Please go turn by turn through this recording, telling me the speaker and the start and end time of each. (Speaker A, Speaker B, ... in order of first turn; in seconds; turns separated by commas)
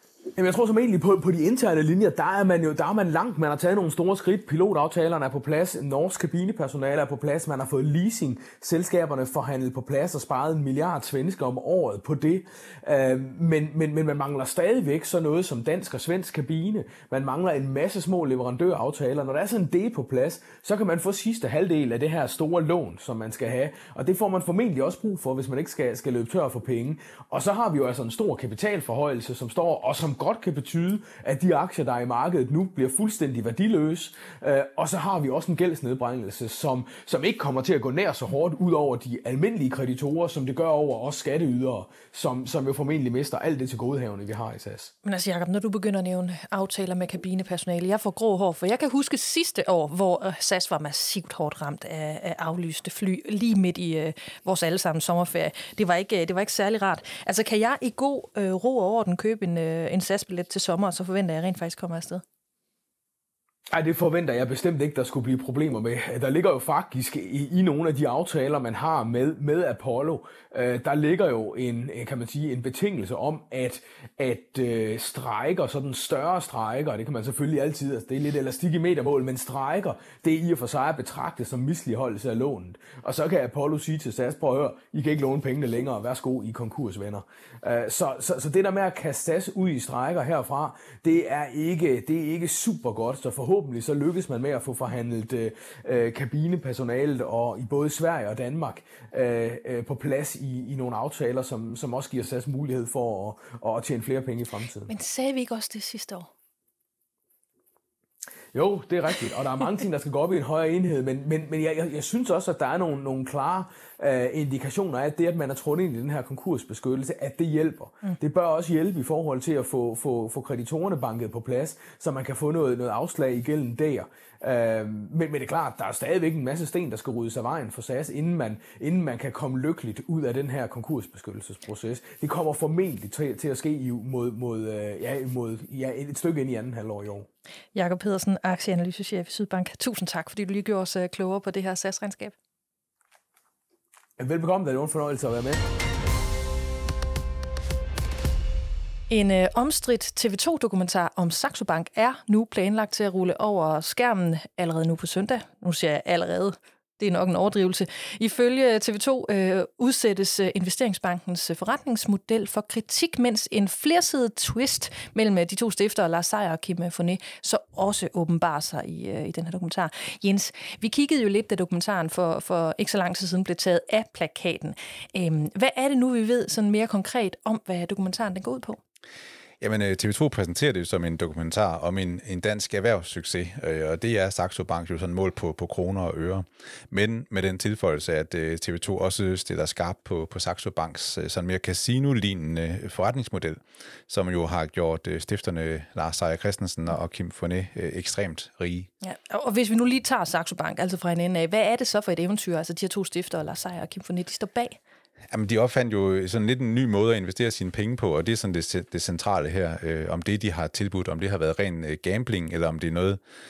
Speaker A: 0.3-44.9, Speaker B: 45.0-62.2, Speaker A: 63.7-104.9, Speaker B: 104.9-106.3, Speaker A: 108.5-137.3, Speaker B: 137.7-142.3, Speaker A: 144.2-145.7, Speaker B: 149.1-178.8, Speaker C: 179.6-198.9, Speaker B: 199.0-204.8, Speaker C: 205.3-213.2